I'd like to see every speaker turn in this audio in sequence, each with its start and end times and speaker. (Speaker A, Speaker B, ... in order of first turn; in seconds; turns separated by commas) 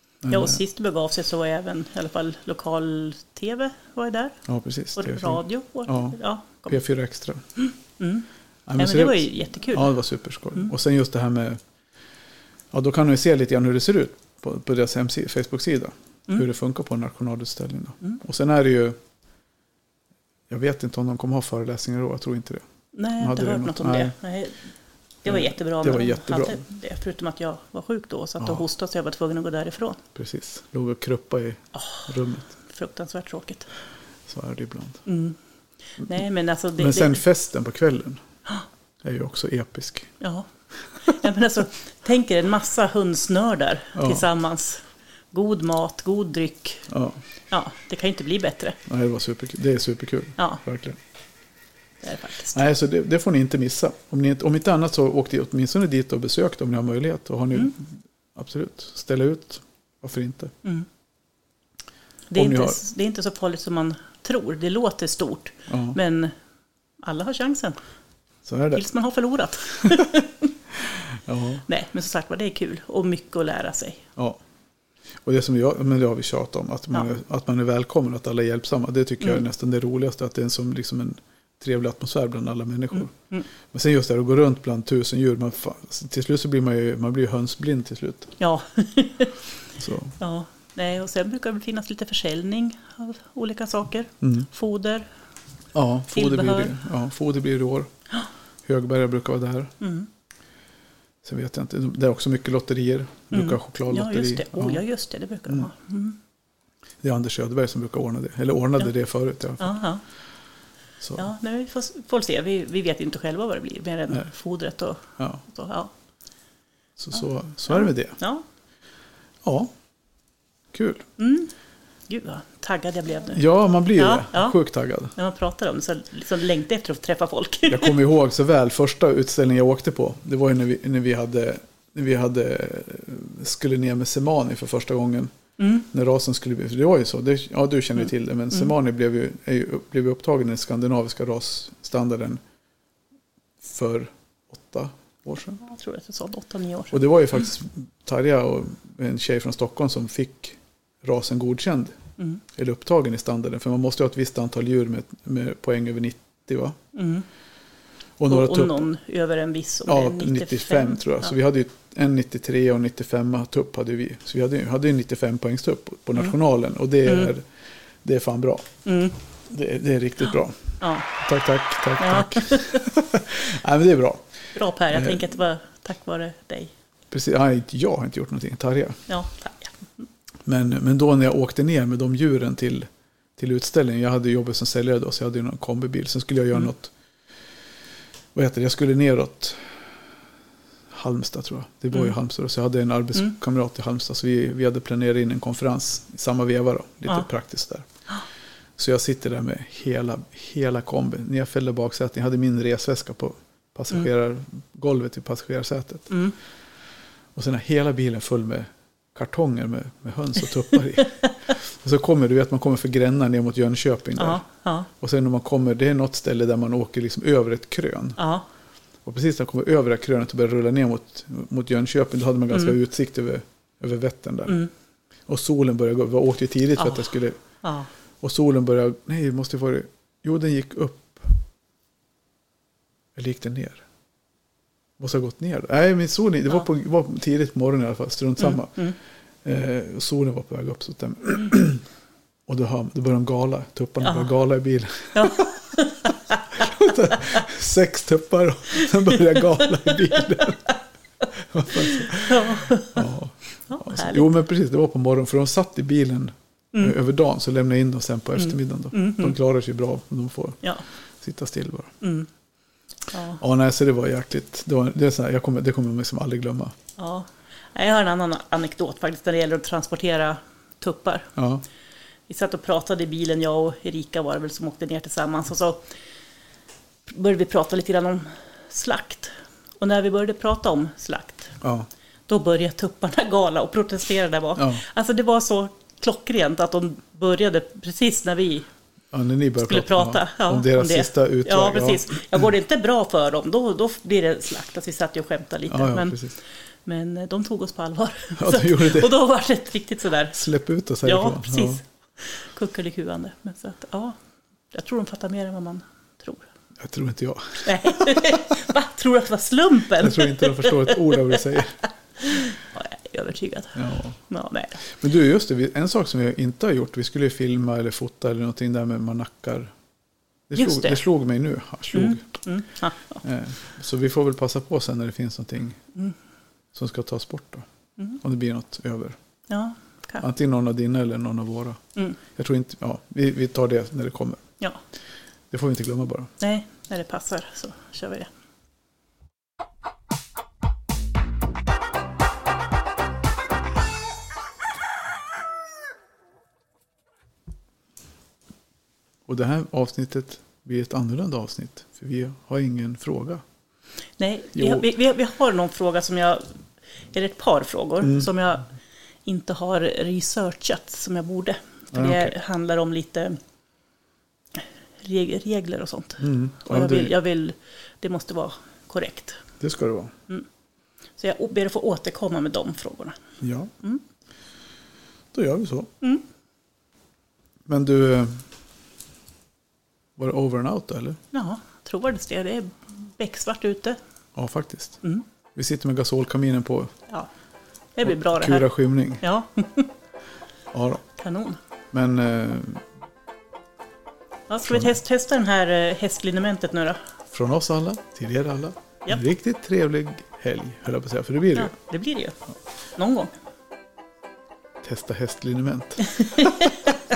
Speaker A: 0.2-0.6, Speaker B: 0.3-4.4, Speaker A: 4.5-7.4, Speaker B: 5.0-6.8, Speaker B: 7.6-8.3, Speaker A: 8.7-11.6, Speaker B: 8.8-9.9, Speaker A: 12.7-19.0, Speaker A: 20.5-22.6, Speaker B: 22.9-24.6, Speaker A: 23.2-24.1, Speaker A: 25.2-26.6, Speaker B: 25.2-30.0, Speaker A: 30.1-32.5, Speaker B: 31.7-33.7, Speaker A: 34.3-35.0, Speaker B: 35.0-35.4, Speaker B: 36.0-37.2, Speaker A: 36.8-38.2, Speaker A: 39.0-40.1, Speaker B: 40.2-40.5, Speaker B: 41.1-46.9, Speaker A: 43.9-44.3, Speaker A: 46.9-47.2, Speaker B: 47.5-48.8, Speaker A: 48.9-51.0, Speaker B: 52.0-52.6, Speaker A: 52.5-60.5, Speaker B: 62.3-66.3, Speaker A: 62.3-62.8, Speaker A: 65.7-66.0, Speaker B: 67.0-67.8, Speaker A: 68.4-68.8, Speaker B: 68.7-70.5, Speaker A: 71.2-71.6, Speaker B: 71.7-74.0, Speaker A: 75.2-83.1, Speaker B: 82.9-83.5, Speaker A: 83.7-88.3, Speaker B: 88.4-89.3, Speaker A: 89.8-90.1, Speaker B: 90.2-95.1, Speaker A: 94.2-94.5, Speaker A: 95.7-97.9, Speaker B: 96.1-96.8, Speaker A: 98.7-99.7, Speaker B: 99.8-100.1, Speaker A: 101.2-104.8, Speaker B: 103.3-106.2, Speaker A: 107.0-109.8, Speaker B: 109.6-110.0, Speaker B: 111.2-115.9, Speaker A: 117.0-118.2, Speaker B: 117.7-118.4, Speaker A: 119.4-119.7, Speaker A: 120.7-121.0, Speaker B: 121.2-121.5, Speaker B: 122.1-123.4, Speaker A: 123.3-125.1, Speaker B: 124.0-124.6, Speaker B: 125.1-128.0, Speaker A: 127.7-135.3, Speaker B: 135.6-135.9, Speaker A: 135.9-142.4, Speaker A: 143.6-145.6, Speaker B: 145.6-147.1, Speaker A: 146.9-152.0, Speaker A: 152.5-156.8, Speaker B: 156.9-157.2, Speaker A: 158.2-158.8, Speaker B: 158.3-161.3, Speaker A: 159.8-167.4, Speaker B: 167.1-167.3, Speaker A: 168.0-168.7, Speaker B: 168.8-169.2, Speaker A: 169.5-174.2, Speaker B: 170.8-171.1, Speaker B: 172.0-172.8, Speaker B: 174.5-176.7, Speaker A: 174.9-175.2, Speaker A: 177.1-179.0, Speaker B: 179.1-180.0, Speaker A: 180.4-186.9, Speaker A: 188.3-189.8, Speaker A: 190.9-197.8, Speaker A: 198.8-206.2, Speaker A: 207.3-214.4, Speaker B: 214.2-214.9, Speaker A: 215.0-218.2, Speaker B: 218.2-218.4, Speaker A: 219.0-224.6, Speaker A: 225.3-227.4, Speaker B: 226.8-227.9, Speaker A: 228.2-231.4, Speaker A: 233.1-233.8, Speaker A: 235.0-241.8, Speaker B: 238.4-238.9, Speaker A: 242.5-245.5, Speaker B: 244.0-244.3, Speaker B: 245.1-246.4, Speaker A: 246.5-250.7, Speaker A: 251.3-260.6, Speaker B: 251.8-253.1, Speaker B: 253.7-254.3, Speaker B: 258.4-259.4, Speaker A: 261.2-261.9, Speaker B: 262.0-262.3, Speaker B: 263.1-263.4, Speaker A: 263.4-266.7, Speaker B: 267.0-271.3, Speaker A: 271.4-271.6, Speaker B: 272.3-275.8, Speaker B: 277.1-281.5, Speaker A: 281.6-281.9, Speaker B: 282.3-288.7, Speaker A: 284.6-284.8, Speaker A: 289.1-292.2, Speaker B: 289.6-296.2, Speaker A: 295.7-296.3, Speaker B: 296.8-300.4, Speaker A: 298.4-299.1, Speaker A: 300.3-301.8, Speaker B: 301.0-304.1, Speaker B: 304.7-306.4, Speaker A: 306.8-308.3, Speaker B: 307.6-311.4, Speaker A: 309.9-311.8, Speaker B: 312.2-314.8, Speaker A: 313.7-314.2, Speaker A: 314.9-319.7, Speaker A: 320.5-322.3, Speaker B: 320.5-321.0, Speaker B: 321.9-323.2, Speaker A: 323.2-325.8, Speaker A: 326.7-327.6, Speaker A: 328.2-329.1, Speaker B: 329.5-330.2, Speaker A: 330.2-334.4, Speaker A: 335.5-336.3, Speaker B: 336.4-338.3, Speaker A: 349.2-353.4, Speaker B: 354.2-356.4, Speaker A: 354.5-354.9, Speaker B: 357.1-358.7, Speaker A: 358.0-358.3, Speaker B: 359.2-363.4, Speaker A: 361.9-362.3, Speaker B: 365.0-369.4, Speaker A: 366.2-367.1, Speaker A: 369.6-370.1, Speaker B: 371.2-373.1, Speaker A: 373.4-373.7, Speaker A: 375.3-375.9, Speaker A: 377.6-378.4, Speaker A: 380.2-381.2, Speaker B: 381.3-384.0, Speaker A: 384.3-385.0, Speaker A: 385.5-386.9, Speaker B: 387.9-389.9, Speaker A: 388.0-389.2, Speaker A: 390.7-391.0, Speaker B: 391.2-391.6, Speaker A: 391.9-392.8, Speaker B: 394.5-397.0, Speaker A: 394.6-395.0, Speaker A: 397.3-401.7, Speaker B: 401.5-402.3, Speaker B: 403.0-403.3, Speaker A: 404.8-406.9, Speaker B: 406.1-406.9